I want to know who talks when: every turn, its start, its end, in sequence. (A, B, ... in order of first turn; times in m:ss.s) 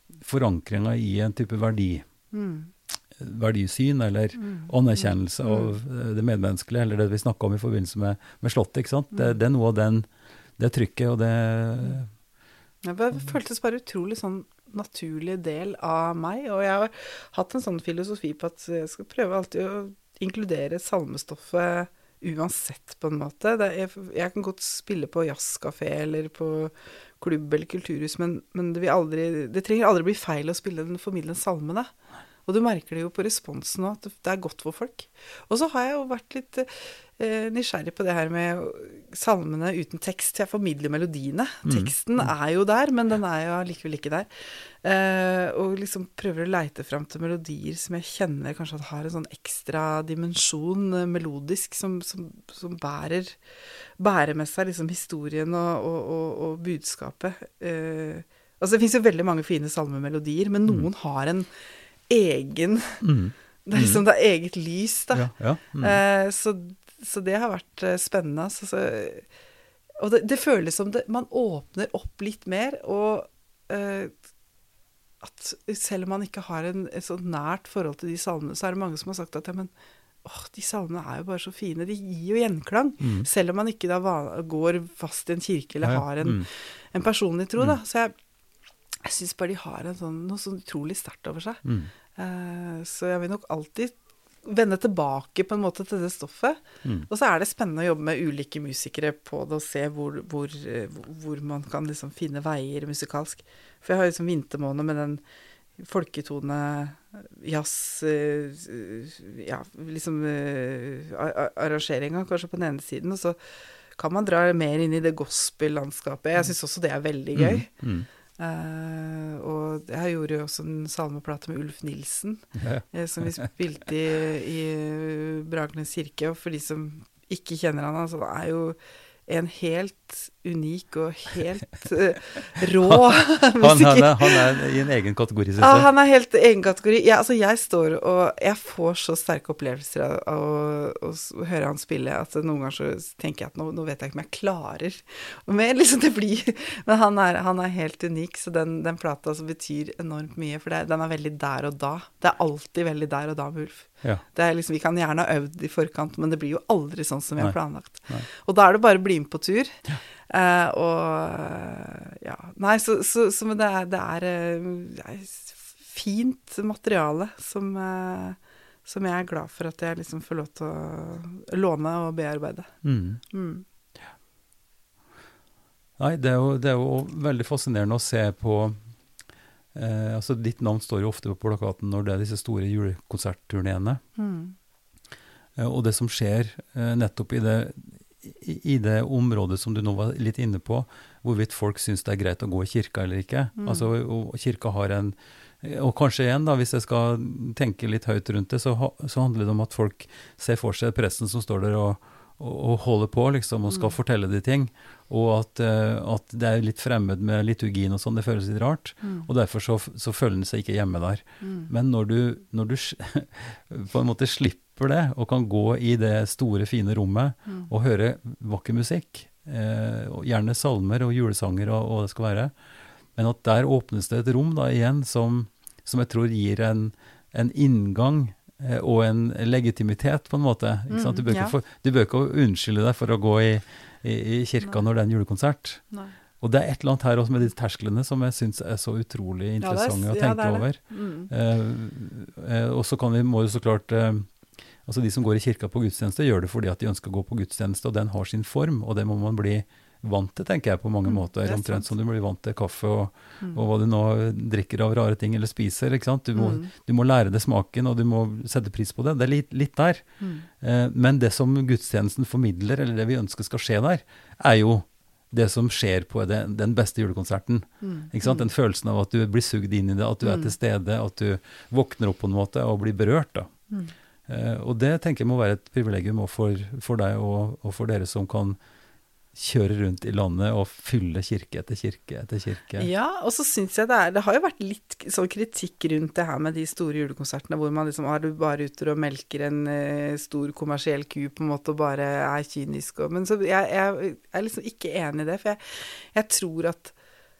0:00.2-0:02.0 A
0:02.3-0:02.7 B
0:03.2-0:12.1 A
0:04.4-0:05.7 B
0:12.8-0:31.9 B
0:32.4-0:53.4 B
0:41.6-0:42.2 A
0:54.0-1:01.5 B
1:02.1-1:03.0 B
1:03.0-1:04.0 A
1:03.6-1:09.2 B
1:05.1-1:06.0 A
1:10.0-1:14.1 B
1:15.2-1:19.7 B
1:20.2-1:28.1 B
1:23.0-1:23.3 A
1:25.8-1:26.4 A
1:29.0-1:31.6 B
1:31.6-1:31.9 A
1:32.2-1:45.2 B
1:45.8-1:53.4 B
1:54.0-1:57.7 B
1:57.3-1:58.1 A
1:58.4-2:14.6 B
2:02.6-2:03.5 A
2:12.8-2:15.9 A
2:15.6-2:52.7 B
2:52.8-2:53.2 A
2:53.3-2:53.6 B
2:56.0-2:58.8 A
2:59.7-3:04.0 A
3:04.2-3:04.6 B
3:05.6-3:42.5 A
3:13.6-3:13.9 B
3:23.7-3:23.9 B
3:29.0-3:29.3 B
3:31.4-3:31.7 B
3:43.1-3:55.8 A
3:50.9-3:51.6 B
3:56.4-4:04.3 A
3:59.6-4:01.3 B
4:04.8-4:20.0 A
4:11.0-4:11.9 B
4:16.3-4:16.7 B
4:20.2-4:20.5 B
4:20.6-4:33.5 A
4:27.8-4:28.5 B
4:30.2-4:30.5 B
4:34.3-4:38.6 A
4:39.3-4:42.9 A
4:42.8-4:56.9 B